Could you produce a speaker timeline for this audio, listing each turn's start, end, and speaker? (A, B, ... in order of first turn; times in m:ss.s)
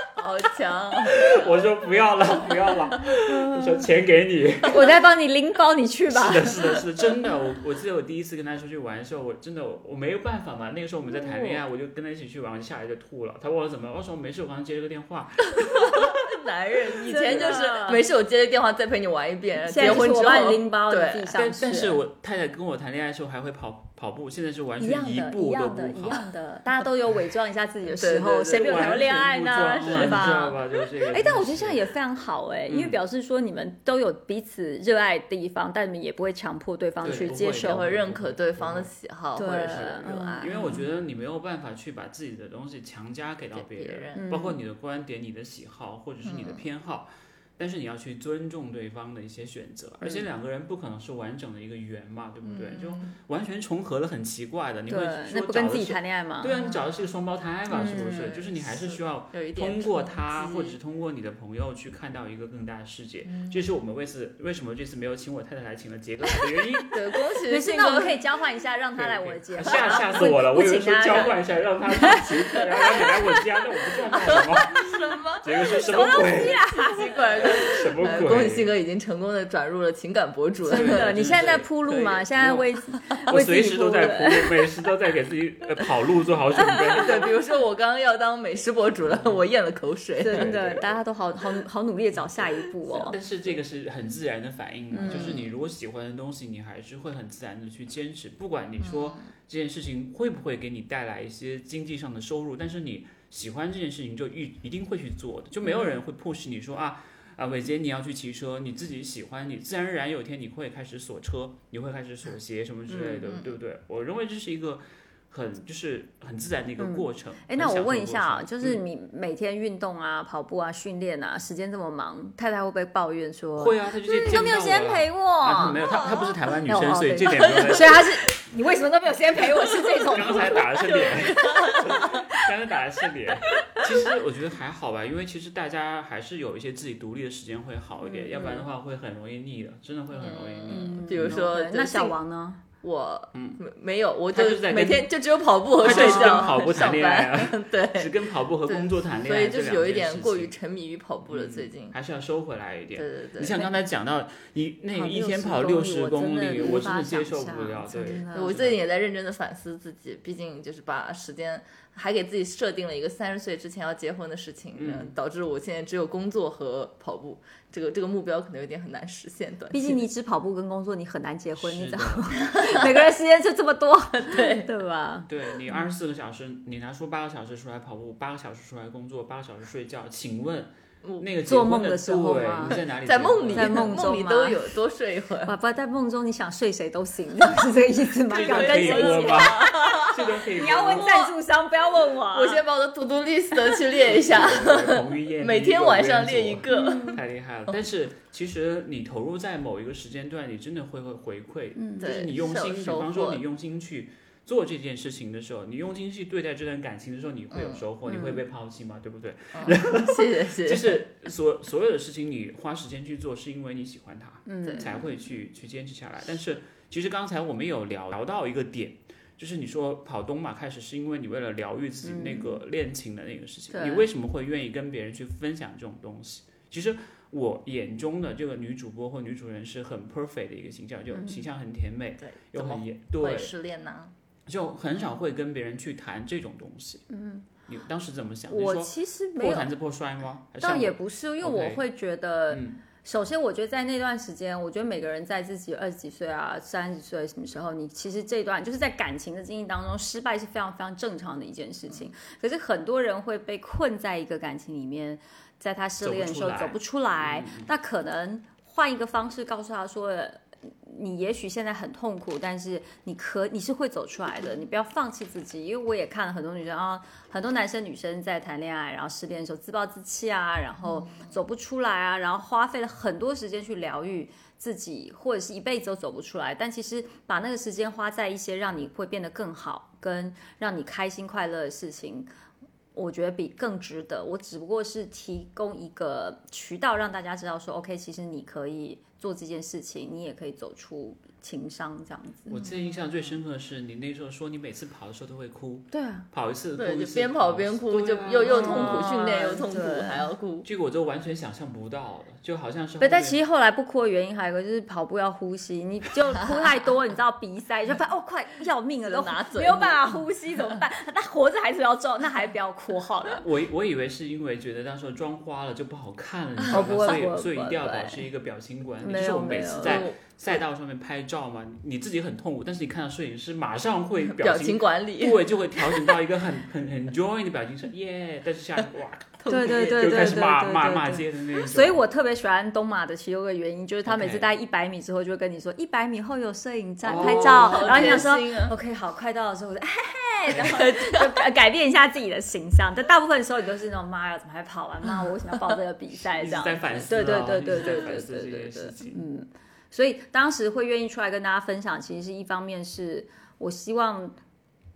0:00.2-0:01.5 A
0:01.0-0:04.9 B
0:03.3-0:03.6 C
0:04.7-0:06.8 C
0:06.1-0:16.2 B
0:11.2-0:11.6 C
0:15.6-0:21.3 A
0:17.1-0:18.0 C
0:17.2-0:17.5 B
0:19.7-0:22.0 C
0:21.3-0:26.2 B
0:24.8-0:37.8 C
0:27.9-0:29.1 A
0:28.5-0:31.8 B
0:29.9-0:30.2 A
0:32.7-0:33.0 B
0:37.0-0:38.9 B
0:37.0-0:40.9 A
0:39.4-0:40.8 C
0:40.4-1:07.0 B
0:43.5-0:44.4 A
0:44.1-0:44.6 C
0:46.2-0:46.6 A
0:52.4-0:53.2 A
0:54.9-0:56.6 C
0:56.4-0:57.1 A
0:57.7-0:58.4 C
0:57.9-1:00.8 A
1:03.2-1:03.6 A
1:06.9-1:08.2 A
1:07.4-1:11.4 C
1:09.0-1:16.6 B
1:11.9-1:13.1 C
1:12.6-1:13.2 A
1:14.1-1:14.4 C
1:14.2-1:22.3 A
1:15.7-1:17.7 C
1:17.3-1:18.7 B
1:20.7-1:24.6 C
1:20.7-1:21.7 B
1:22.4-1:22.6 B
1:23.3-1:27.3 B
1:26.6-1:27.0 C
1:26.9-1:30.6 A
1:29.1-1:29.4 B
1:30.2-1:33.2 C
1:30.3-1:31.0 B
1:32.9-1:58.8 B
1:34.9-1:35.4 C
1:35.0-1:35.5 A
1:38.8-1:39.3 A
1:52.9-1:53.6 A
1:56.8-2:12.4 C
2:03.6-2:08.1 B
2:07.5-2:07.7 A
2:10.0-2:21.4 B
2:10.9-2:12.0 A
2:18.0-2:18.6 C
2:20.1-2:22.2 A
2:20.7-2:22.6 C
2:22.8-2:32.0 A
2:23.3-2:23.6 B
2:24.3-2:25.1 B
2:25.8-2:30.5 B
2:25.8-2:26.5 C
2:31.3-2:38.8 B
2:32.9-2:33.6 A
2:34.9-2:38.6 C
2:38.3-2:50.0 A
2:44.7-2:45.1 B
2:49.7-2:55.8 C
2:51.5-2:52.3 B
2:52.5-2:52.9 A
2:54.3-2:54.7 A
2:55.3-3:04.1 B
3:01.4-3:02.8 C
3:02.7-3:05.5 A
3:03.5-3:04.7 C
3:05.4-3:12.6 C
3:08.3-3:11.2 B
3:08.3-3:11.3 A
3:12.0-3:17.7 A
3:14.0-3:53.5 B
3:16.7-3:17.2 C
3:21.8-3:22.1 C
3:22.0-3:23.4 A
3:27.5-3:27.8 A
3:28.1-3:28.4 C
3:29.5-3:31.0 A
3:34.4-3:34.9 C
3:34.6-3:35.0 A
3:42.0-3:42.6 C
3:43.7-3:44.1 C
3:51.1-3:51.4 C
3:52.2-3:54.1 A
3:54.5-3:57.0 B
3:57.1-3:57.5 C
3:57.6-4:01.8 B
3:58.5-3:59.7 C
4:00.6-4:42.3 C
4:02.5-4:02.8 B
4:16.0-4:17.7 B
4:30.8-4:31.3 A
4:42.9-4:52.6 C
4:52.5-4:59.2 B
4:52.5-4:53.0 A
4:55.9-4:56.2 C
4:56.8-5:00.7 A
4:58.4-5:00.3 C
5:00.6-5:03.4 B
5:03.0-5:13.4 C
5:09.0-5:10.2 A
5:13.4-5:32.0 B
5:16.7-5:18.2 C
5:19.0-5:20.0 C
5:19.8-5:20.4 A
5:24.3-5:26.2 A
5:29.4-5:30.3 A
5:29.5-5:54.4 C
5:34.0-5:34.5 B
5:37.0-5:38.3 B
5:37.1-5:38.7 A
5:40.6-5:41.4 A
5:46.3-5:49.2 B
5:47.8-5:48.1 A